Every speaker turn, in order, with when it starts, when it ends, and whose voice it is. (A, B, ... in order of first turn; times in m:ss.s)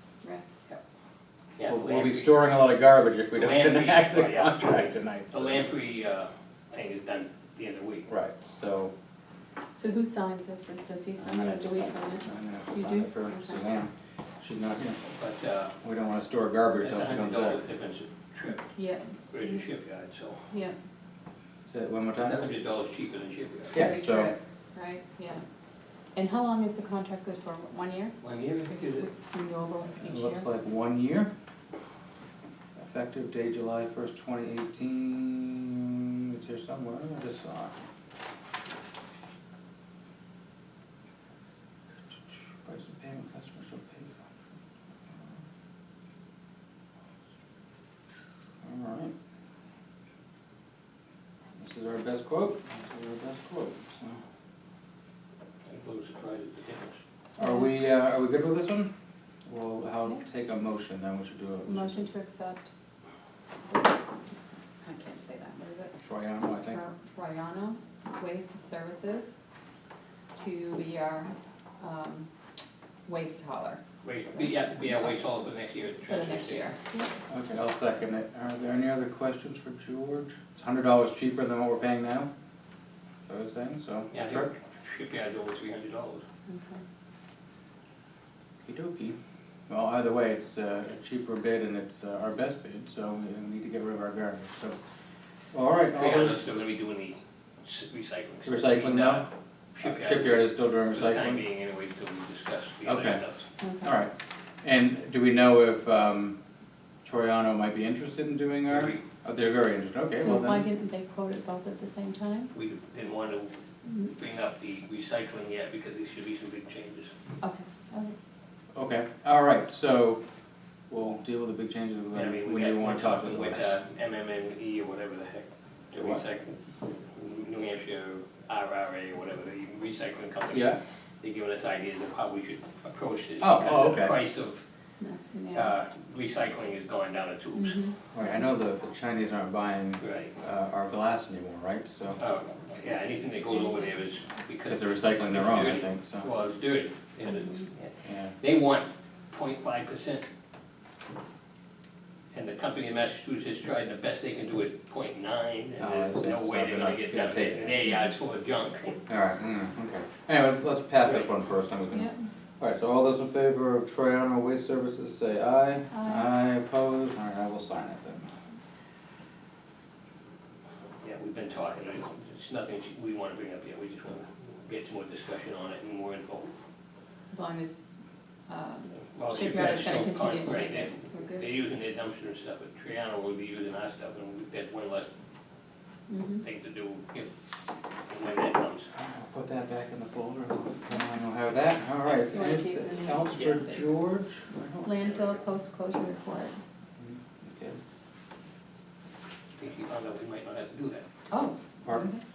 0:01.6-0:02.4 A
0:01.6-0:05.6 B
0:03.3-0:08.1 A
0:08.0-0:08.9 B
0:09.8-0:13.6 C
0:11.2-0:15.0 B
0:15.0-0:15.8 A
0:15.8-0:17.6 B
0:16.8-0:18.7 A
0:18.7-0:19.4 C
0:19.3-0:20.5 A
0:21.7-0:22.5 B
0:22.2-0:23.9 A
0:23.7-0:24.3 B
0:23.7-0:25.4 C
0:26.1-0:28.2 C
0:28.2-0:29.1 A
0:29.2-0:30.5 C
0:30.0-0:31.3 B
0:32.8-0:37.8 B
0:42.3-0:44.3 B
0:48.6-0:49.1 B
0:51.6-0:54.2 B
0:55.6-0:57.0 A
0:57.4-0:58.9 B
0:57.4-0:57.7 C
0:59.5-1:02.1 B
1:01.6-1:02.7 C
1:04.8-1:05.9 C
1:06.0-1:06.8 B
1:06.6-1:09.3 C
1:10.3-1:12.3 C
1:13.0-1:13.8 C
1:14.0-1:16.7 A
1:14.5-1:15.0 C
1:16.1-1:17.1 C
1:17.3-1:22.3 B
1:23.2-1:24.5 B
1:24.1-1:26.2 A
1:26.5-1:26.8 C
1:28.6-1:29.2 B
1:29.7-1:34.8 B
1:35.5-1:36.4 B
1:35.9-1:43.5 A
1:38.4-1:39.2 B
1:39.8-1:41.4 B
1:42.8-1:43.2 B
1:43.6-1:43.9 C
1:43.8-1:46.4 B
1:47.0-1:50.6 B
1:48.7-1:49.0 A
1:50.1-1:52.5 C
1:52.5-1:57.1 A
1:53.8-1:54.1 C
1:57.4-1:58.2 C
1:58.7-2:00.2 B
2:00.9-2:03.7 B
2:02.1-2:14.6 A
2:06.0-2:06.2 B
2:10.5-2:10.8 B
2:13.4-2:14.2 B
2:15.0-2:15.7 C
2:15.5-2:17.8 A
2:17.5-2:18.0 C
2:18.1-2:22.2 B
2:20.0-2:20.3 A
2:22.2-2:30.2 A
2:23.5-2:23.8 C
2:24.6-2:26.3 B
2:28.0-2:28.3 B
2:32.3-2:39.0 A
2:35.8-2:37.8 B
2:39.1-2:48.3 B
2:41.9-2:42.2 C
2:45.9-2:46.3 C
2:51.0-2:56.5 A
2:57.3-2:57.8 C
2:58.5-3:01.4 C
2:59.1-3:05.1 A
2:59.3-2:59.6 B
3:06.1-3:06.4 C
3:06.4-3:07.3 A
3:08.1-3:08.9 A
3:08.9-3:15.2 B
3:12.0-3:13.8 C
3:14.8-3:16.6 C
3:17.0-3:17.8 B
3:19.6-3:21.0 A
3:21.3-3:22.2 C
3:21.8-3:22.1 B